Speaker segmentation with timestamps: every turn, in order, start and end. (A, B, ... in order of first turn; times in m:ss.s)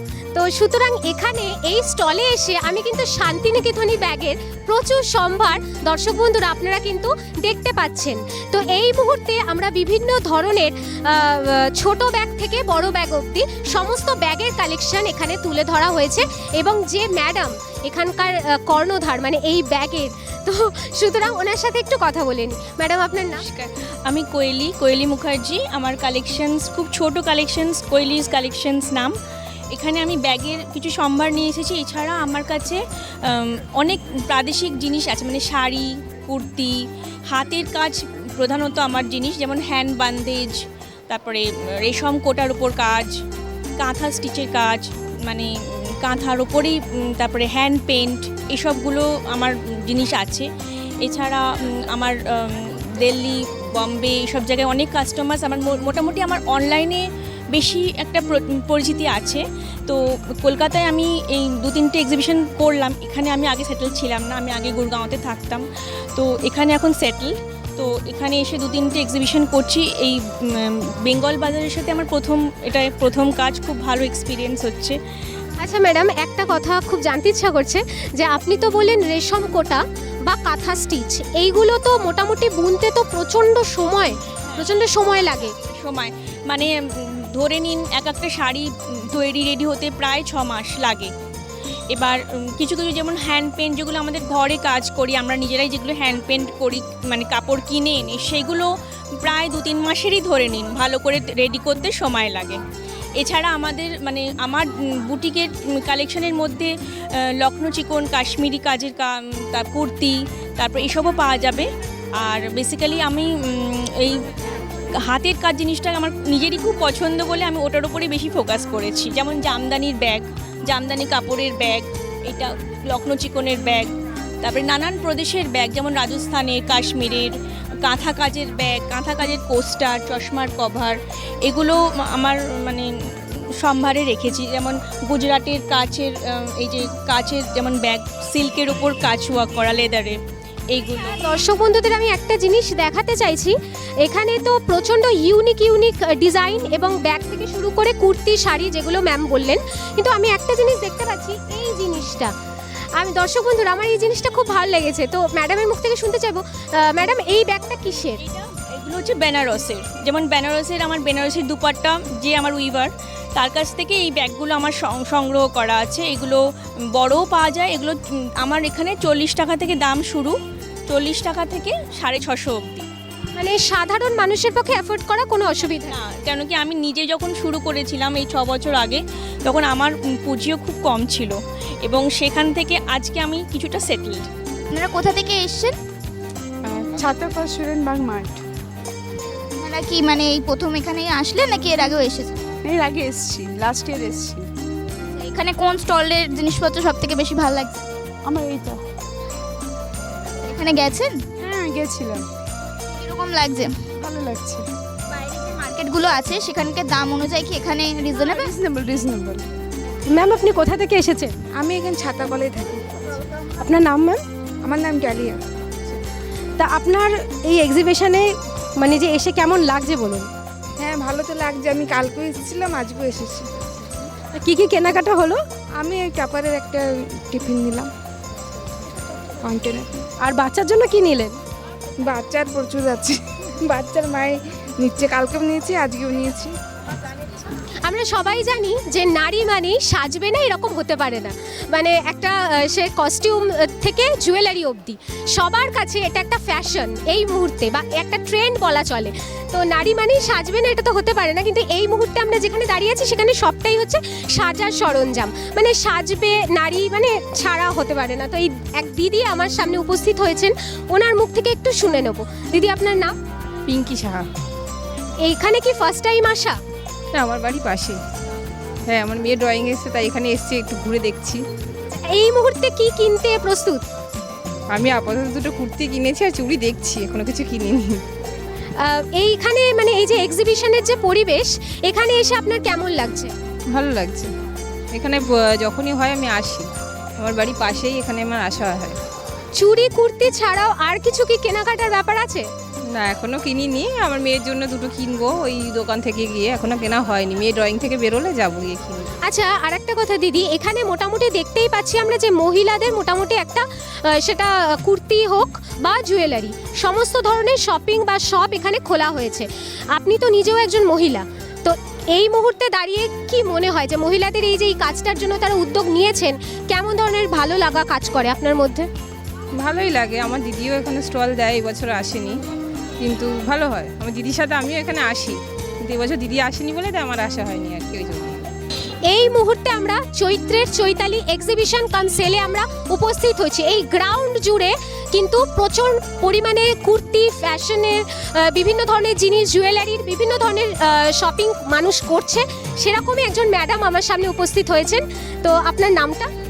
0:00.4-0:23.4 A
0:23.4-0:29.2 B
0:29.7-0:43.1 B
0:43.8-0:50.5 B
0:51.0-1:15.0 B
1:15.6-1:25.5 A
1:24.5-1:24.7 B
1:25.5-1:31.1 B
1:31.9-1:42.6 B
1:43.2-1:51.7 B
1:52.2-1:54.3 B
1:55.0-2:03.9 B
2:04.4-2:20.2 B
2:20.7-2:21.3 B
2:21.0-2:32.3 A
2:33.0-2:38.2 A
2:38.2-2:46.4 B
2:47.0-2:50.4 B
2:50.9-2:52.9 B
2:53.4-2:55.9 A
2:55.6-3:04.3 B
3:04.7-3:05.8 C
3:06.7-3:08.4 D
3:09.6-3:12.4 C
3:12.6-3:14.5 D
3:15.2-3:17.8 C
3:18.2-3:18.8 D
3:20.4-3:21.2 C
3:21.4-3:22.2 D
3:23.0-3:23.8 C
3:24.0-3:24.6 D
3:25.2-3:28.6 C
3:28.2-3:29.4 D
3:30.1-3:31.3 E
3:31.6-3:33.1 D
3:33.6-3:34.2 E
3:34.6-3:35.4 D
3:36.6-3:40.3 E
3:40.8-3:43.7 D
3:44.4-3:45.4 E
3:45.8-3:47.9 D
3:49.4-3:49.9 D
3:50.2-3:51.4 E
3:52.0-3:56.5 D
3:57.8-4:23.1 A
4:23.7-4:24.3 F
4:25.2-4:26.6 A
4:27.1-4:28.0 F
4:28.9-4:31.4 F
4:31.9-4:33.8 A
4:34.7-4:38.0 F
4:38.8-4:43.3 A
4:43.7-4:44.3 F
4:44.9-4:49.0 F
4:49.6-4:52.5 A
4:53.0-4:59.1 F
4:59.2-5:18.9 A
5:19.6-5:22.4 F
5:23.0-5:28.5 F
5:29.1-5:46.3 A